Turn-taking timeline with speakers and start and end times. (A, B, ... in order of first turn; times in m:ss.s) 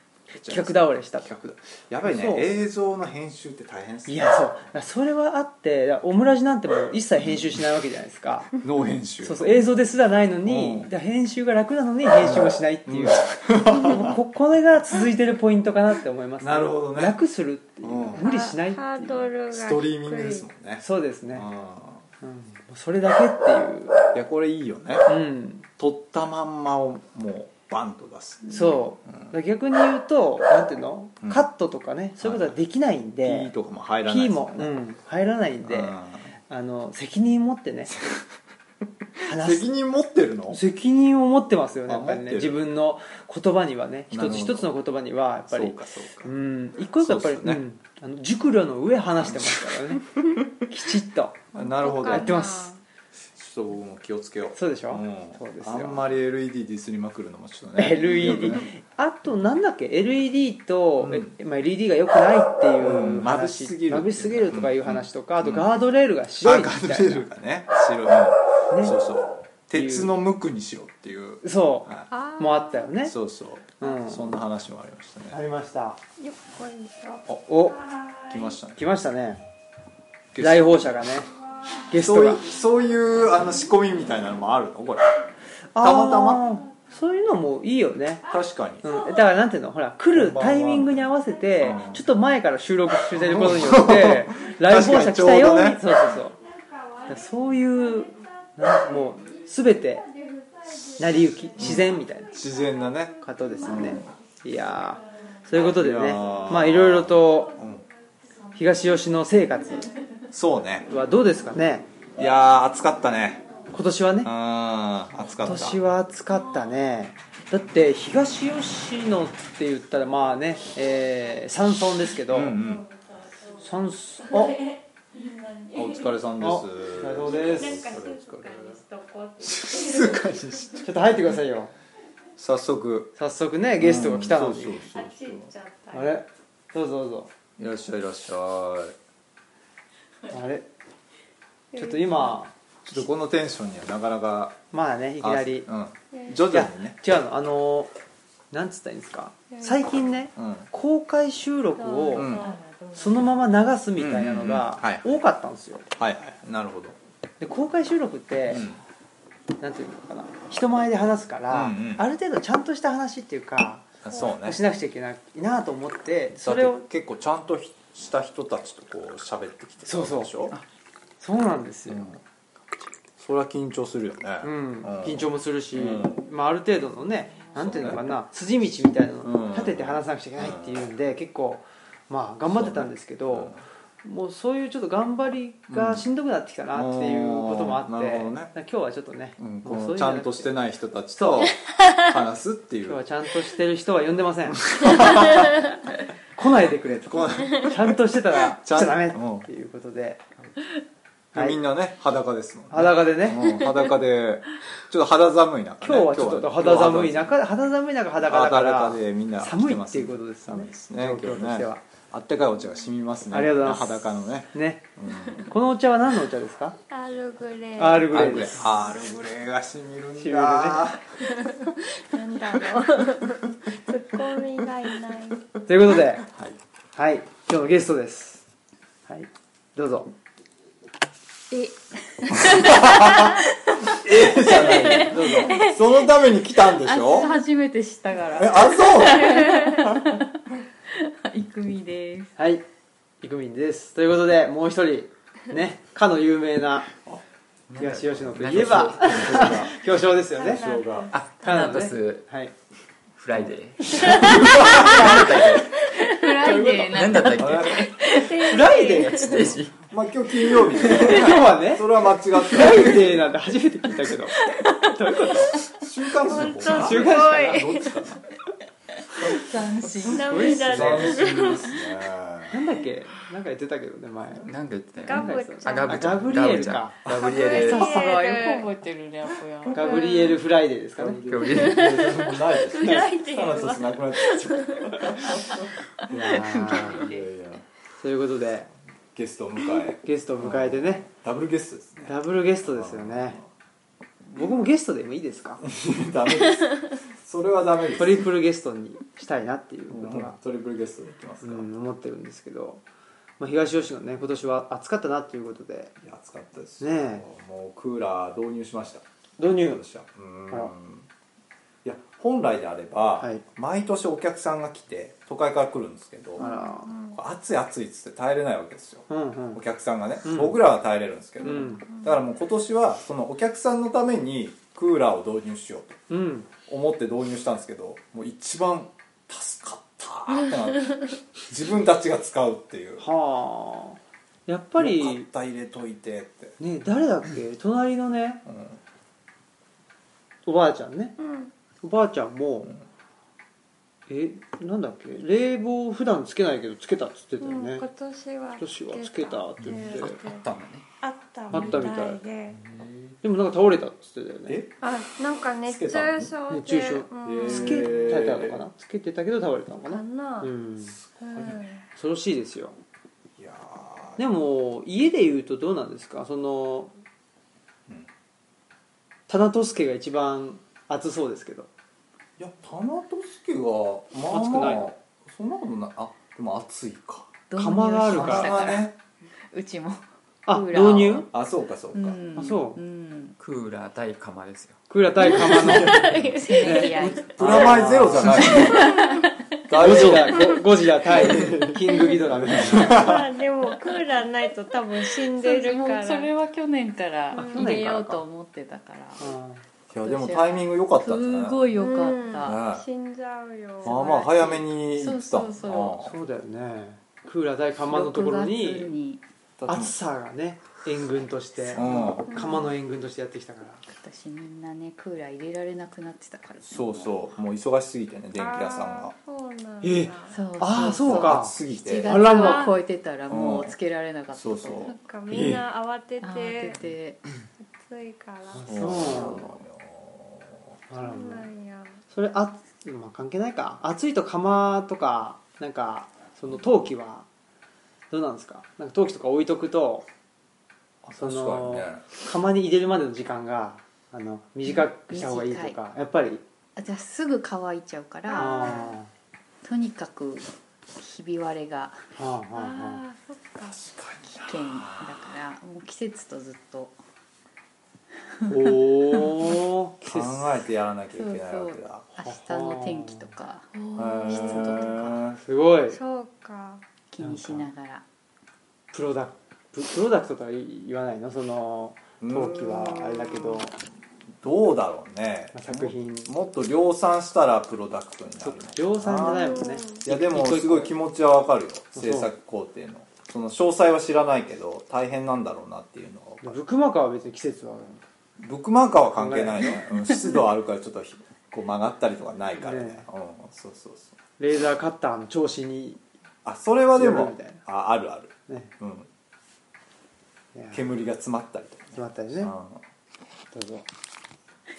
0:00.4-0:00.9 A
0:00.4-0:02.5 B
0:01.9-0:04.6 A
0:04.1-0:08.5 B
0:08.6-0:09.7 A
0:09.2-0:19.2 B
0:10.4-0:10.9 A
0:12.2-0:14.2 A
0:16.4-0:17.2 A
0:17.8-0:18.2 A
0:18.2-0:20.5 C
0:19.5-0:22.0 A
0:20.8-0:21.5 B
0:22.2-0:24.1 B
0:24.1-0:25.1 A
0:25.0-0:25.7 B
0:25.8-0:28.6 A
0:28.5-0:33.5 B
0:31.2-0:31.5 A
0:32.2-0:32.6 A
0:33.2-0:34.8 A
0:34.0-0:36.0 B
0:35.6-0:36.3 A
0:36.5-0:37.9 B
0:39.2-0:40.6 A
0:39.2-0:39.6 B
0:40.5-0:50.1 B
0:41.9-0:42.6 A
0:44.1-0:44.7 A
0:45.5-0:46.3 A
0:47.0-0:47.6 A
0:49.2-0:49.7 A
0:50.7-0:52.7 B
0:51.5-0:52.4 A
0:51.7-0:52.8 C
0:53.3-0:58.7 A
0:54.5-0:56.1 B
0:57.8-1:07.3 B
1:01.0-1:01.3 A
1:02.8-1:05.7 A
1:06.4-1:12.0 A
1:08.7-1:09.0 B
1:09.7-1:10.1 B
1:11.4-1:13.1 B
1:12.1-1:12.9 C
1:13.0-1:15.4 A
1:13.8-1:14.3 B
1:15.3-1:16.0 B
1:16.2-1:18.6 C
1:17.5-1:17.8 B
1:18.3-1:18.8 A
1:18.8-1:19.4 B
1:20.3-1:20.9 A
1:20.4-1:21.3 B
1:21.9-1:22.4 B
1:22.0-1:25.1 A
1:25.7-1:28.2 B
1:25.8-1:26.4 A
1:28.2-1:28.9 A
1:28.8-1:36.4 B
1:30.1-1:31.1 A
1:31.6-1:32.0 A
1:31.6-1:32.0 C
1:33.1-1:35.9 A
1:36.3-1:46.5 C
1:37.1-1:40.0 B
1:41.0-1:42.3 B
1:41.6-1:44.0 A
1:43.2-1:47.5 B
1:45.6-1:47.8 A
1:47.3-1:47.7 C
1:48.4-1:48.9 C
1:48.5-1:49.9 B
1:49.7-1:50.2 C
1:50.3-1:50.9 A
1:50.9-1:51.9 B
1:52.2-1:53.4 A
1:53.7-1:54.3 B
1:54.2-1:55.8 A
1:55.4-2:02.6 B
2:02.3-2:02.8 A
2:02.5-2:03.7 C
2:03.6-2:04.6 B
2:04.2-2:06.2 C
2:05.7-2:08.8 A
2:06.4-2:07.8 B
2:07.3-2:10.8 C
2:09.4-2:10.9 A
2:10.8-2:11.7 B
2:12.4-2:13.1 A
2:13.2-2:14.8 B
2:13.8-2:15.5 A
2:14.8-2:16.2 C
2:15.9-2:17.3 B
2:17.6-2:19.0 A
2:20.3-2:20.7 B
2:21.7-2:22.4 C
2:21.7-2:22.5 B
2:22.8-2:24.6 A
2:24.7-2:25.7 B
2:25.2-2:27.0 A
2:26.1-2:26.4 C
2:26.5-2:27.9 B
2:28.5-2:32.4 B
2:29.5-2:29.9 C
2:30.4-2:30.7 A
2:31.8-2:32.9 C
2:32.2-2:32.6 A
2:32.7-2:33.2 D
2:33.0-2:35.9 B
2:34.0-2:35.1 A
2:36.0-2:37.0 A
2:37.4-2:38.7 B
2:38.5-2:38.8 A
2:39.6-2:46.8 B
2:41.5-2:42.0 A
2:44.0-2:44.6 A
2:46.4-2:50.5 A
2:49.8-2:50.6 B
2:51.2-2:52.2 B
2:51.9-2:52.2 A
2:53.2-2:56.2 A
2:54.4-3:10.5 B
2:57.5-2:58.0 A
2:59.2-3:00.8 A
3:02.5-3:03.6 A
3:05.7-3:06.0 A
3:06.7-3:08.5 A
3:09.4-3:13.0 A
3:11.1-3:11.5 B
3:12.9-3:15.2 B
3:14.7-3:15.6 A
3:16.3-3:20.3 B
3:17.1-3:18.0 A
3:18.6-3:19.5 A
3:21.3-3:27.3 A
3:22.7-3:23.5 B
3:25.8-3:31.8 B
3:28.2-3:35.5 A
3:33.3-3:34.8 B
3:35.4-3:36.8 B
3:36.9-3:38.6 C
3:37.8-3:38.6 B
3:38.1-3:41.7 A
3:40.2-3:40.9 B
3:41.2-3:45.5 C
3:45.6-3:46.2 B
3:46.2-3:46.6 A
3:46.9-3:48.4 B
3:49.1-3:50.1 B
3:51.5-4:00.3 D
3:52.4-3:57.4 A
3:54.9-3:55.6 B
3:58.3-4:00.2 A
4:00.8-4:02.3 D
4:02.4-4:02.6 B
4:03.2-4:06.9 B
4:07.7-4:09.6 E
4:07.8-4:10.7 B
4:07.9-4:09.8 A
4:10.4-4:11.1 A
4:11.1-4:12.2 E
4:11.4-4:12.5 B
4:13.1-4:15.7 E
4:13.9-4:14.9 B
4:14.2-4:15.5 A
4:14.3-4:19.1 D
4:16.4-4:16.8 B
4:16.7-4:18.0 E
4:17.3-4:18.0 A
4:18.0-4:19.5 C
4:18.4-4:19.6 B
4:19.2-4:19.8 E
4:19.3-4:23.3 A
4:20.8-4:25.6 B
4:24.4-4:24.8 D
4:25.8-4:28.2 A
4:26.2-4:28.0 C
4:26.6-4:27.6 B
4:29.2-4:29.4 A
4:29.2-4:31.5 D
4:30.0-4:31.9 C
4:30.0-4:32.6 A
4:30.3-4:31.2 B
4:32.5-4:34.5 B
4:34.4-4:38.1 E
4:35.0-4:36.4 C
4:35.1-4:37.0 B
4:37.0-4:37.4 A
4:37.2-4:38.7 C
4:37.4-4:40.1 D
4:39.7-4:41.5 B
4:39.8-4:40.4 C
4:41.0-4:47.6 A
4:41.1-4:42.0 E
4:41.4-4:45.5 C
4:46.1-4:47.2 B
4:46.6-4:47.0 D
4:48.0-4:48.7 B
4:49.1-4:52.1 A
4:50.0-4:51.1 B
4:52.0-4:53.4 B
4:52.6-4:53.5 A
4:54.3-4:55.6 B
4:55.6-4:58.2 A
4:58.0-5:00.4 B
4:59.9-5:01.7 A
5:01.4-5:02.8 B
5:03.4-5:05.9 B
5:06.0-5:09.0 A
5:06.8-5:07.2 B
5:09.4-5:09.8 B
5:09.6-5:11.1 A
5:11.8-5:16.5 A
5:13.2-5:13.4 B
5:16.4-5:16.9 B
5:16.4-5:17.2 C
5:17.1-5:26.0 A
5:19.1-5:19.6 B
5:20.2-5:20.6 B
5:21.4-5:21.8 B
5:21.5-5:22.1 C
5:26.1-5:26.5 B
5:26.7-5:33.0 A
5:33.0-5:35.3 B
5:34.8-5:36.6 A
5:36.6-5:38.4 B
5:38.4-5:38.8 A
5:40.4-5:41.1 B
5:41.2-5:41.5 C
5:41.8-5:42.8 B
5:44.1-5:47.8 B
5:47.4-5:50.4 C
5:48.6-5:50.2 B
5:49.6-5:50.8 E
5:51.0-5:52.6 C
5:51.5-5:52.2 B
5:53.2-5:54.6 B
5:54.5-5:54.8 A
5:54.8-5:58.2 C
5:55.6-5:56.3 A
5:56.5-6:01.0 B
5:57.2-5:58.6 A
5:59.9-6:00.5 C
6:01.1-6:01.6 A
6:01.2-6:01.8 C
6:01.9-6:02.7 B
6:03.4-6:04.2 A
6:04.2-6:06.9 B
6:09.3-6:11.7 B
6:12.4-6:17.3 A
6:14.3-6:14.9 B
6:17.5-6:18.9 D
6:17.6-6:18.7 B
6:18.1-6:18.9 A
6:19.5-6:21.3 D
6:20.4-6:21.3 B
6:21.3-6:22.2 A
6:21.9-6:23.4 D
6:22.3-6:22.8 B
6:23.4-6:24.8 E
6:24.9-6:28.7 B
6:25.3-6:29.3 D
6:25.8-6:27.2 C
6:27.3-6:29.0 A
6:28.5-6:29.1 C
6:29.7-6:30.6 A
6:29.8-6:33.1 B
6:31.1-6:33.3 A
6:32.6-6:36.3 C
6:35.3-6:39.2 D
6:37.3-6:37.8 C
6:37.3-6:38.2 B
6:39.2-6:39.6 B
6:39.9-6:41.7 A
6:40.0-6:42.6 D
6:41.8-6:44.6 C
6:42.4-6:42.8 A
6:43.8-6:46.1 A
6:43.9-6:46.1 D
6:46.0-6:48.9 B
6:47.9-6:49.2 D
6:49.6-6:49.9 A
6:49.7-6:53.8 B
6:51.7-6:52.3 A
6:52.3-6:52.6 C
6:53.9-6:57.2 D
6:56.6-6:59.1 A
6:58.4-7:00.4 C
6:59.8-7:02.7 B
7:00.3-7:04.9 D
7:00.6-7:02.3 A
7:02.1-7:02.8 C
7:03.3-7:03.7 A
7:04.3-7:05.6 A
7:04.8-7:06.8 C
7:06.2-7:07.2 D
7:07.7-7:09.4 C
7:08.5-7:09.4 B
7:08.6-7:10.6 A
7:10.9-7:11.5 B
7:11.0-7:12.0 C
7:12.1-7:17.2 B
7:18.1-7:20.0 B
7:21.0-7:22.0 A
7:21.2-7:26.4 B
7:24.7-7:25.8 D
7:26.8-7:28.9 D
7:28.3-7:28.9 C
7:28.3-7:29.1 B
7:29.6-7:32.0 D
7:32.2-7:33.0 B
7:32.5-7:33.8 C
7:33.7-7:35.3 A
7:34.4-7:37.0 D
7:38.4-7:39.2 D
7:38.5-7:40.5 B
7:40.0-7:42.0 A
7:41.1-7:45.2 D
7:42.2-7:43.3 B
7:43.7-7:44.9 C
7:43.9-7:45.4 A
7:45.4-7:46.0 B
7:45.9-7:46.8 C
7:47.1-7:48.0 D
7:47.2-7:47.6 B
7:48.9-7:53.7 B
7:52.2-7:53.6 A
7:54.4-8:06.6 A
7:55.5-7:56.3 B
7:58.4-8:01.0 B
7:59.2-8:00.0 C
8:01.9-8:02.3 B
8:06.4-8:08.0 B
8:08.4-8:14.1 A
8:09.1-8:09.8 B
8:12.6-8:13.0 B
8:14.4-8:16.0 B
8:16.4-8:19.1 A
8:16.9-8:17.6 B
8:20.5-8:20.8 B
8:20.7-8:22.8 A
8:21.9-8:22.5 B
8:23.5-8:23.8 B